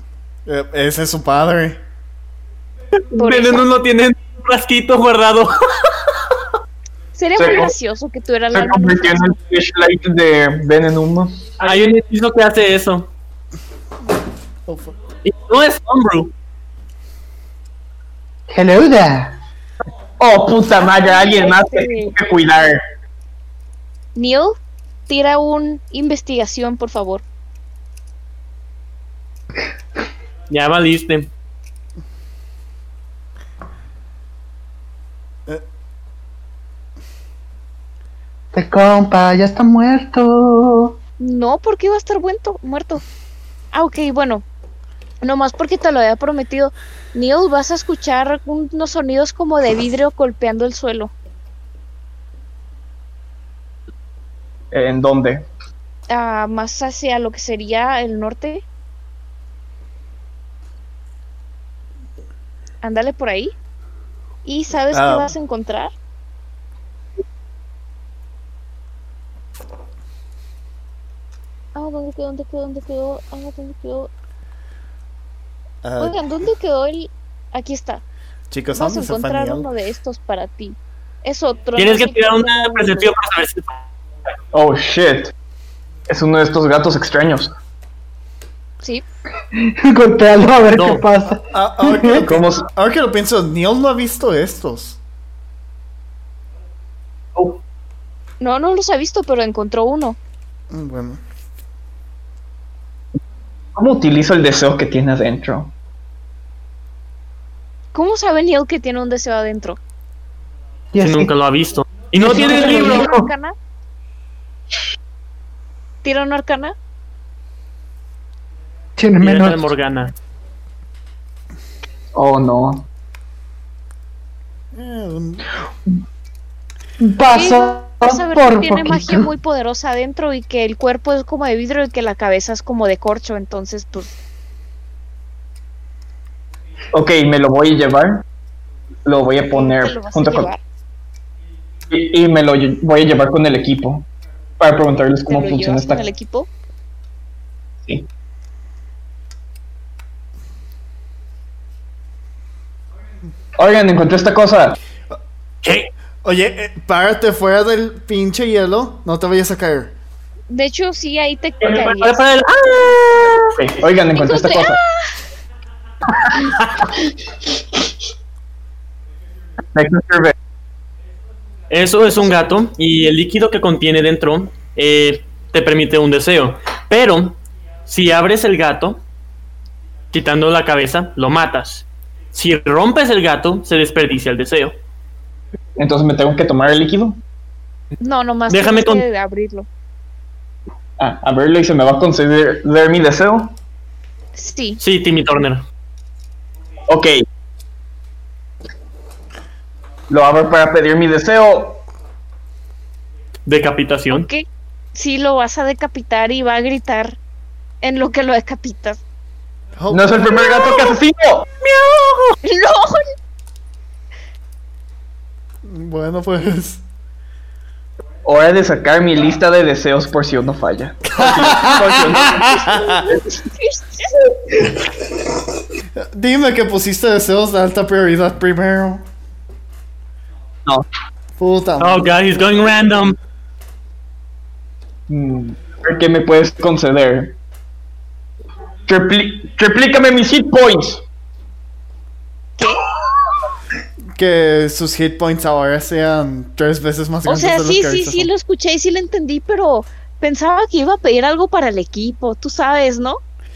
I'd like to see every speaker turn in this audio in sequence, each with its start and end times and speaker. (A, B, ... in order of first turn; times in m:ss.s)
0:00.5-0:01.8 A
0:03.1-0:05.9 B
0:03.1-0:03.6 C
0:07.2-0:09.3 C
0:07.4-0:07.7 D
0:08.5-0:11.8 D
0:11.6-0:13.1 B
0:14.7-0:14.9 A
0:15.2-0:16.3 B
0:18.5-0:19.4 E
0:20.2-0:22.8 D
0:20.8-0:22.2 C
0:24.2-0:24.6 C
0:25.1-0:27.2 C
0:30.5-0:31.3 B
0:38.5-0:41.0 E
0:41.2-0:43.0 C
0:43.7-0:44.4 C
0:45.2-0:51.1 C
0:54.7-0:55.5 D
0:56.1-0:58.6 C
1:02.8-1:03.5 C
1:04.4-1:06.0 C
1:04.9-1:05.3 A
1:11.8-1:14.1 C
1:15.8-1:16.2 A
1:16.0-1:18.0 C
1:18.5-1:19.7 A
1:18.7-1:23.1 C
1:21.8-1:23.8 B
1:24.5-1:25.3 D
1:26.1-1:27.5 D
1:29.5-1:32.2 E
1:30.7-1:31.0 B
1:31.4-1:35.0 A
1:32.2-1:32.6 D
1:38.4-1:40.2 C
1:40.7-1:41.2 A
1:43.8-1:45.7 D
1:47.9-1:49.8 C
1:50.9-1:51.3 E
1:51.0-1:53.1 B
1:52.2-1:53.3 E
1:52.2-1:53.6 C
1:56.0-1:56.8 C
1:59.0-1:59.7 E
1:59.2-2:00.2 B
2:02.1-2:02.8 D
2:04.7-2:05.5 A
2:07.0-2:09.3 E
2:07.3-2:14.2 C
2:16.9-2:18.2 D
2:19.0-2:20.5 D
2:19.5-2:20.6 C
2:21.9-2:24.1 D
2:24.6-2:26.0 D
2:25.3-2:26.5 C
2:33.6-2:34.8 D
2:35.6-2:35.9 B
2:36.2-2:39.9 A
2:40.5-2:42.3 C
2:41.6-2:43.6 B
2:43.6-2:44.8 D
2:44.2-2:45.1 C
2:49.7-2:50.4 D
2:51.7-2:59.0 B
3:00.1-3:04.7 B
3:05.8-3:07.2 D
3:08.0-3:09.7 C
3:08.5-3:09.0 B
3:11.0-3:13.6 D
3:14.4-3:14.8 C
3:14.8-3:15.6 B
3:16.9-3:17.2 D
3:20.1-3:21.8 D
3:23.5-3:24.3 B
3:24.1-3:27.2 C
3:27.8-3:29.0 C
3:29.8-3:30.2 A
3:29.9-3:31.5 D
3:31.6-3:32.4 B
3:32.4-3:33.1 C
3:35.6-3:36.8 A
3:38.2-3:42.7 D
3:41.1-3:43.1 A
3:43.3-3:44.2 C
3:46.0-3:49.1 A
3:51.4-3:52.1 A
3:51.8-3:53.2 B
3:55.1-3:57.4 D
3:58.9-4:01.0 D
4:02.6-4:02.8 C
4:04.2-4:08.3 A
4:07.3-4:13.2 C